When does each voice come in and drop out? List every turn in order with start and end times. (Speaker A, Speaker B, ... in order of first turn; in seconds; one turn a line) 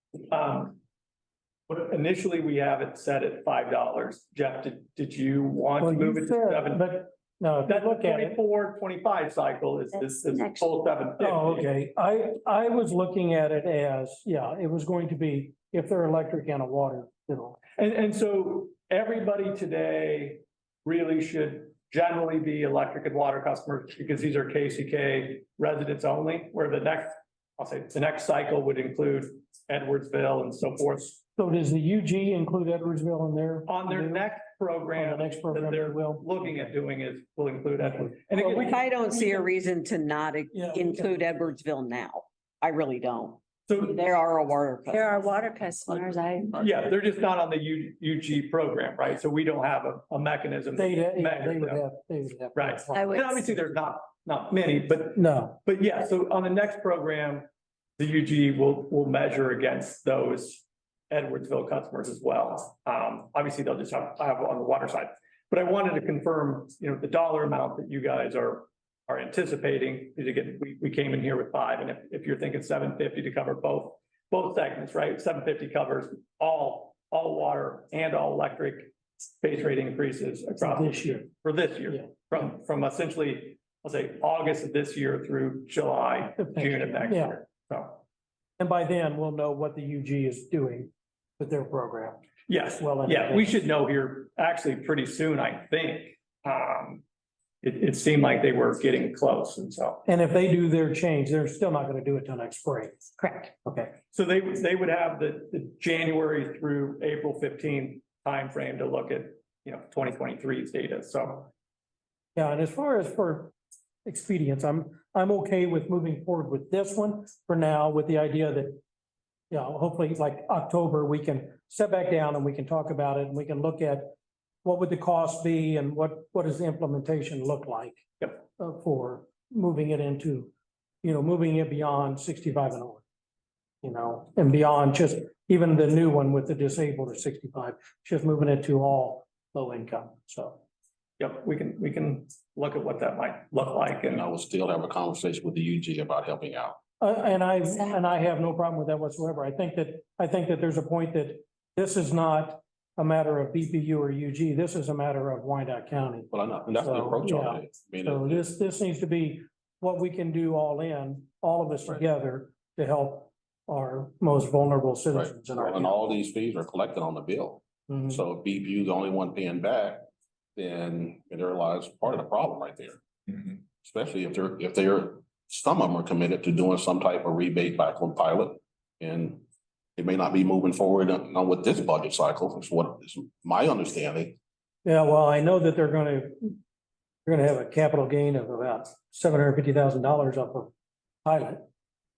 Speaker A: 0.3-0.8
Speaker A: 1.7-6.9
Speaker B: 5.8-8.4
Speaker A: 7.7-11.7
Speaker C: 10.2-10.7
Speaker B: 11.2-17.6
Speaker A: 17.8-31.2
Speaker B: 31.4-34.3
Speaker A: 33.7-38.9
Speaker B: 34.9-36.7
Speaker D: 38.4-45.3
Speaker B: 40.5-41.1
Speaker A: 43.7-44.0
Speaker C: 44.9-46.5
Speaker E: 45.8-46.8
Speaker A: 46.5-51.8
Speaker B: 50.7-53.2
Speaker A: 52.5-57.5
Speaker C: 52.9-53.4
Speaker B: 55.2-55.6
Speaker A: 58.0-88.0
Speaker B: 80.6-81.3
Speaker B: 86.4-87.4
Speaker B: 88.6-92.2
Speaker A: 92.5-97.0
Speaker B: 92.8-93.6
Speaker A: 97.6-100.0
Speaker B: 100.0-103.9
Speaker A: 104.1-111.5
Speaker B: 112.4-113.5
Speaker B: 114.0-118.8
Speaker B: 119.5-124.1
Speaker B: 124.6-130.5
Speaker B: 131.0-133.0
Speaker B: 133.8-140.6
Speaker A: 141.2-144.3
Speaker E: 144.1-146.8
Speaker B: 147.0-166.0
Speaker E: 156.3-158.5
Speaker E: 165.1-179.4
Speaker B: 167.9-168.2
Speaker E: 180.0-184.4
Speaker B: 184.8-186.6
Speaker B: 187.2-190.7
Speaker B: 191.2-191.6